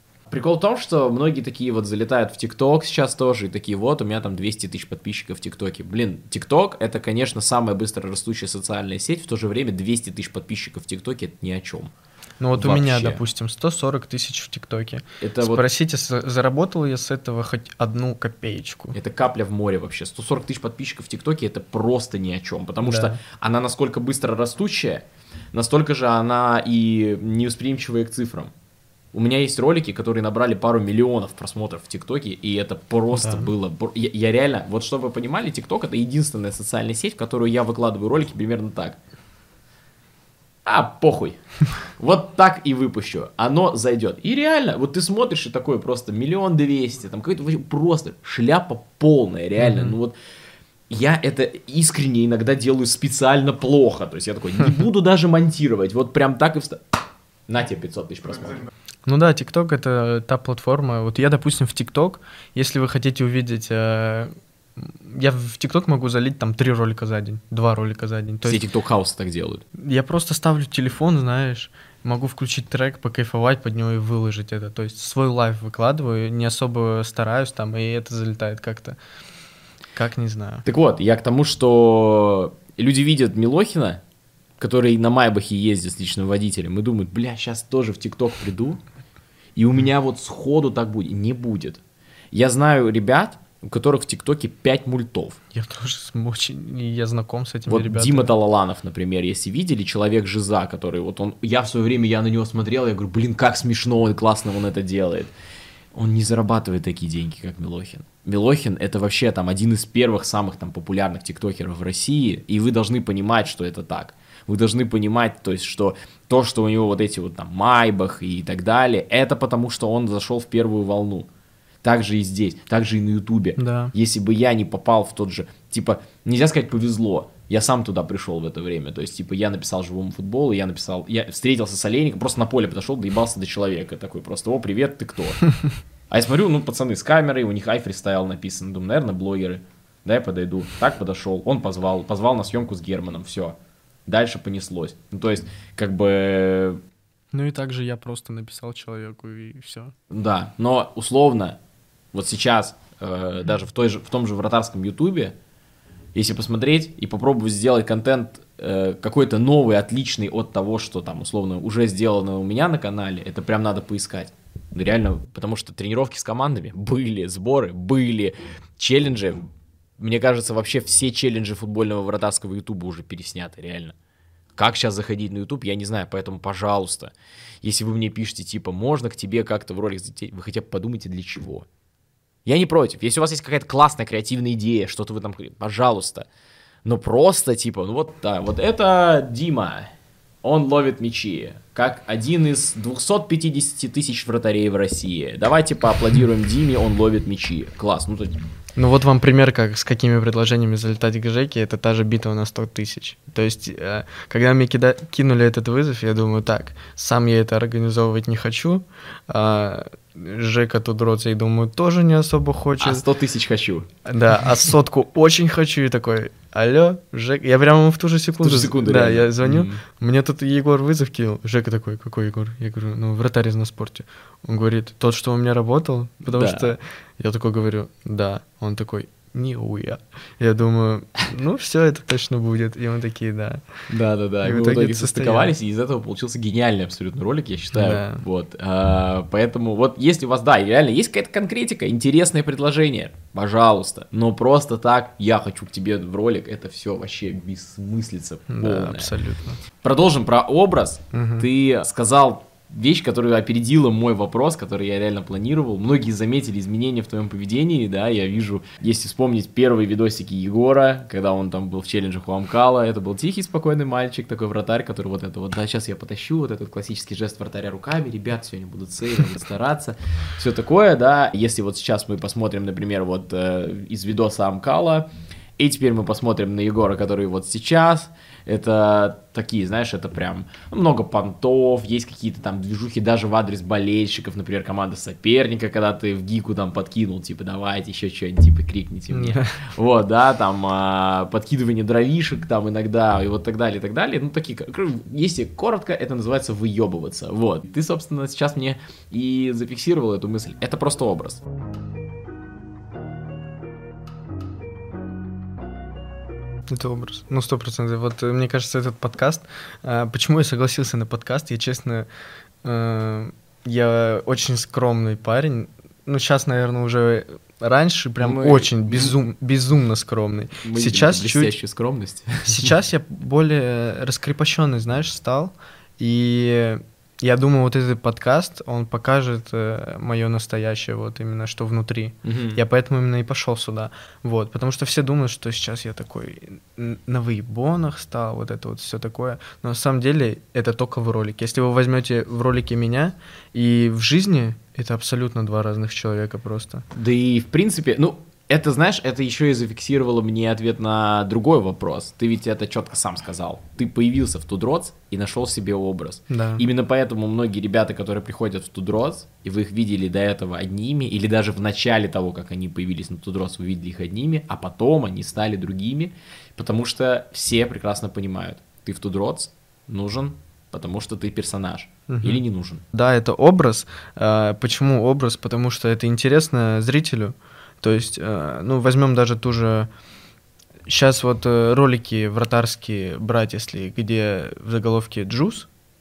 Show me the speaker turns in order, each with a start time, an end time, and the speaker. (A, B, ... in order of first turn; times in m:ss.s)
0:00.3-0:11.9 A
0:12.4-0:18.9 B
0:12.5-0:13.2 A
0:15.2-0:15.6 A
0:18.9-0:28.5 A
0:22.8-0:23.2 B
0:29.1-0:39.0 A
0:33.1-0:33.5 B
0:40.6-0:41.4 A
0:42.0-0:50.1 A
0:49.6-0:50.0 B
0:50.9-0:56.8 A
0:57.5-0:58.6 A
0:59.0-1:08.6 B
1:08.4-1:09.6 A
1:09.7-1:19.0 B
1:19.9-1:20.6 B
1:20.6-1:24.0 A
1:24.6-1:28.8 A
1:29.6-1:31.8 A
1:32.3-1:35.4 A
1:35.5-1:38.3 B
1:37.7-1:45.3 A
1:45.9-2:01.3 A
2:01.8-2:15.5 A
2:03.6-2:03.9 B
2:16.1-2:26.8 A
2:27.3-2:29.9 B
2:30.1-2:31.6 A
2:32.1-2:35.3 A
2:36.1-2:49.4 A
2:50.0-2:54.0 A
2:54.6-3:01.6 A
3:02.4-3:06.3 A
3:06.8-3:18.4 A
3:18.8-3:33.0 B
3:32.8-3:33.9 A
3:34.0-3:53.6 B
3:38.4-3:39.8 A
3:46.3-3:46.7 A
3:53.9-4:09.1 A
3:54.4-3:55.5 B
3:57.7-3:58.2 B
4:08.5-4:09.6 B
4:09.8-5:01.4 A
4:11.1-4:11.5 B
4:49.1-4:49.6 B
5:06.7-5:12.1 B
5:12.6-5:21.5 B
5:18.2-5:19.2 A
5:20.6-5:22.7 A
5:22.5-5:46.8 B
5:32.2-5:32.6 A
5:46.9-6:12.8 A
5:56.3-5:56.6 B
6:12.1-6:19.9 B
6:20.8-6:25.7 B